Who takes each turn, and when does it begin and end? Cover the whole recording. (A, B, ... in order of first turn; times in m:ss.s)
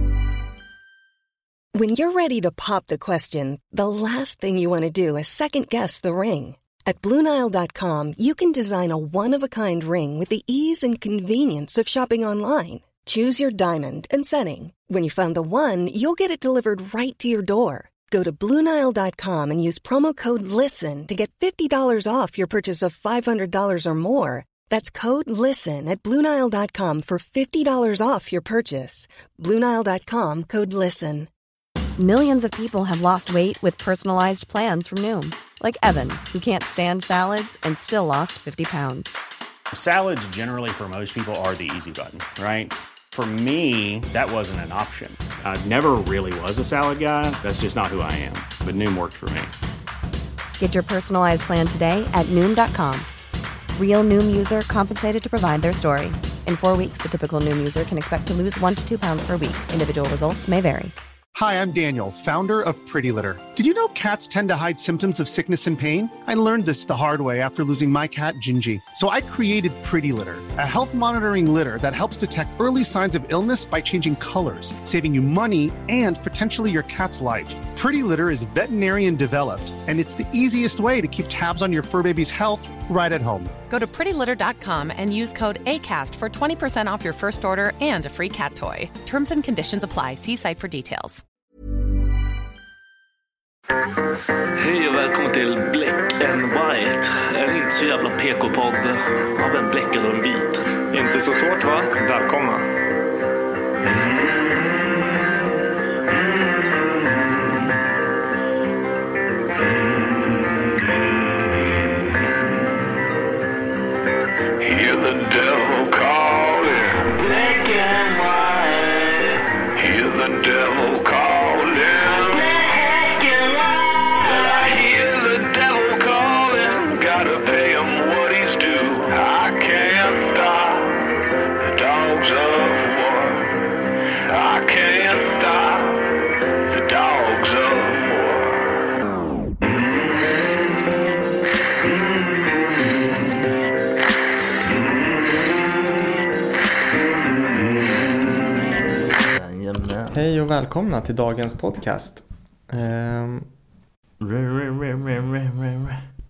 0:01.7-0:31.3 A
0:32.0-0:39.2 B
0:39.8-0:49.5 C
0:50.6-0:53.1 B
0:53.8-1:00.9 B
1:01.4-1:23.5 D
1:23.7-1:31.2 E
1:34.6-1:40.6 F
1:40.9-1:42.7 G
1:54.6-2:13.5 H
2:14.3-2:16.1 H
2:16.6-2:18.8 H
2:29.3-2:30.2 F
2:30.1-2:33.5 G
2:34.2-2:36.0 F